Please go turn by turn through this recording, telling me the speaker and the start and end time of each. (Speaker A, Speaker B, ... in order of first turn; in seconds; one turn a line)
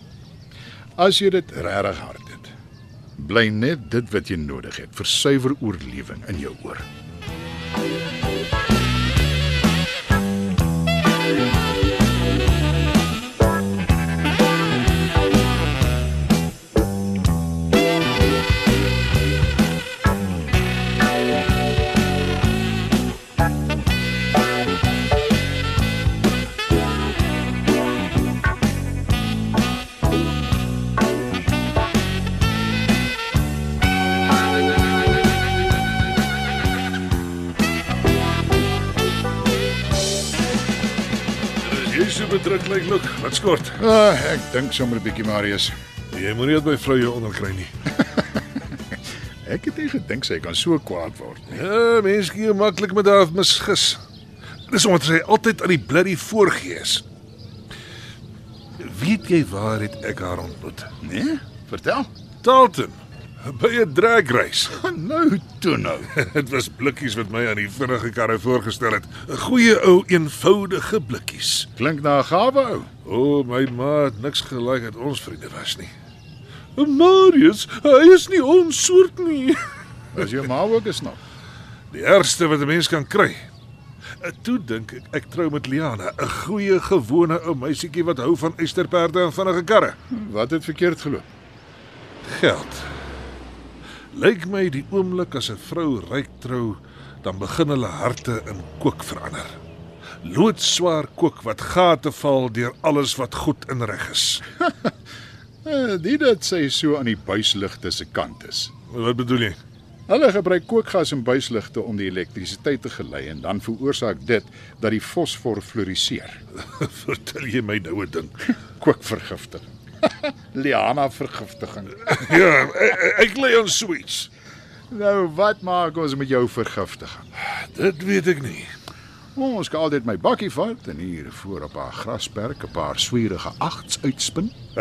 Speaker A: 1.0-2.5
Speaker A: 3.2-6.8
Speaker B: 41.6-43.8
Speaker A: 43.8-45.7
Speaker B: 46.1-47.7
Speaker A: 49.4-51.6
Speaker B: 51.5-54.0
Speaker B: 54.7-57.0
Speaker B: 58.8-60.9
Speaker A: 61.0-62.1
Speaker B: 62.4-64.8
Speaker A: 64.7-66.1
Speaker B: 66.1-71.7
Speaker A: 71.8-72.9
Speaker B: 73.0-75.9
Speaker B: 76.8-79.6
Speaker A: 80.1-81.2
Speaker B: 81.9-83.5
Speaker B: 84.2-90.0
Speaker A: 90.1-91.3
Speaker B: 92.3-92.9
Speaker B: 94.1-99.5
Speaker B: 100.2-104.4
Speaker A: 104.6-104.9
Speaker A: 105.6-108.7
Speaker B: 108.9-109.6
Speaker A: 110.1-116.4
Speaker B: 116.7-118.4
Speaker A: 118.8-122.4
Speaker B: 122.1-124.3
Speaker A: 124.9-127.3
Speaker B: 127.4-128.7
Speaker A: 129.3-134.6